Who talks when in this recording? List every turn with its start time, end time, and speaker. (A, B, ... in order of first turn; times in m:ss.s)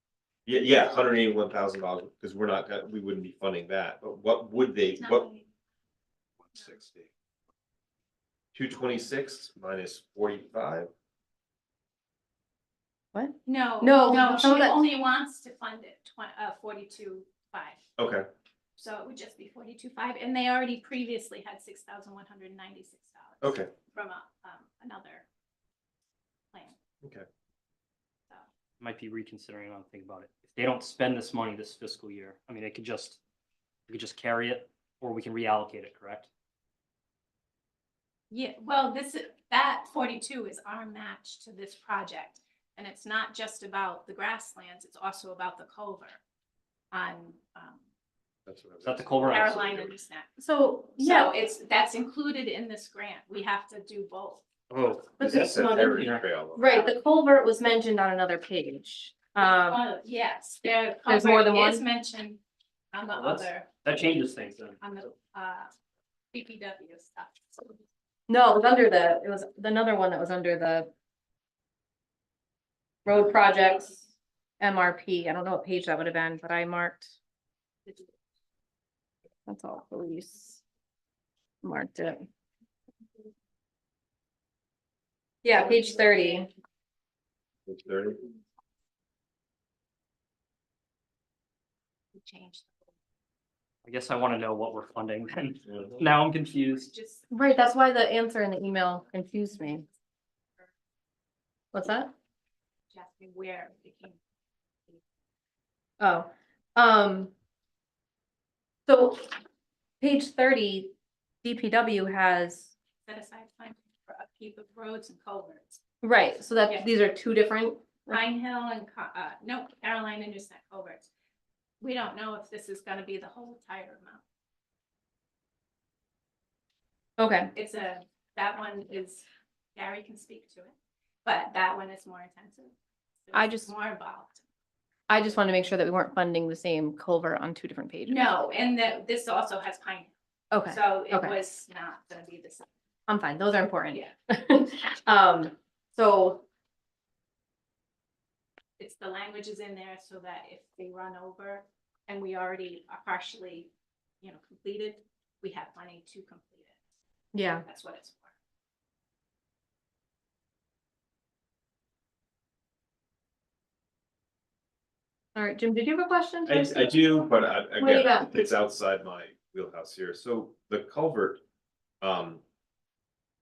0:00.5-0:05.2 A
0:05.0-0:05.5 B
0:06.7-0:07.0 A
0:08.5-0:10.9 A
0:13.1-0:14.8 C
0:13.5-0:17.8 B
0:18.0-0:18.2 A
0:18.8-0:25.3 B
0:23.4-0:23.7 A
0:28.8-0:33.2 D
0:33.9-0:36.3 D
0:38.3-0:46.2 B
0:46.9-0:47.8 B
0:48.5-0:49.9 A
0:48.8-0:49.9 D
0:49.2-0:50.4 B
0:50.4-0:51.3 C
0:51.0-0:54.4 B
0:54.7-0:56.3 D
0:55.2-0:59.8 C
0:55.2-0:56.7 A
0:59.4-1:02.4 B
1:01.1-1:01.8 C
1:02.9-1:03.7 B
1:03.1-1:04.8 D
1:04.8-1:05.7 B
1:06.3-1:07.8 B
1:08.3-1:10.9 C
1:13.1-1:14.1 C
1:14.6-1:17.2 C
1:19.5-1:20.6 C
1:21.6-1:22.3 C
1:25.4-1:26.5 C
1:27.7-1:28.2 A
1:32.2-1:32.9 B
1:33.8-1:36.9 D
1:36.7-1:37.3 B
1:37.3-1:39.9 C
1:41.7-1:42.1 C
1:42.9-1:44.2 B
1:46.0-1:47.3 C
1:48.9-1:49.3 C
1:50.0-1:50.9 C
1:51.4-1:52.7 C
1:53.1-1:55.8 B
1:56.0-1:58.2 C
1:58.1-2:01.1 B
2:01.8-2:04.2 B
2:07.2-2:07.5 C
2:07.6-2:09.2 B
2:09.8-2:14.4 B
2:13.3-2:13.7 C
2:15.1-2:18.3 C
2:18.1-2:20.1 B
2:20.5-2:21.4 C
2:20.7-2:22.7 B
2:23.1-2:26.4 C
2:28.8-2:33.7 B
2:34.2-2:36.8 B
2:37.3-2:37.6 C
2:37.6-2:38.3 B
2:45.4-2:47.0 C
2:46.5-2:51.4 A
2:47.7-2:48.5 C
2:52.0-2:52.4 A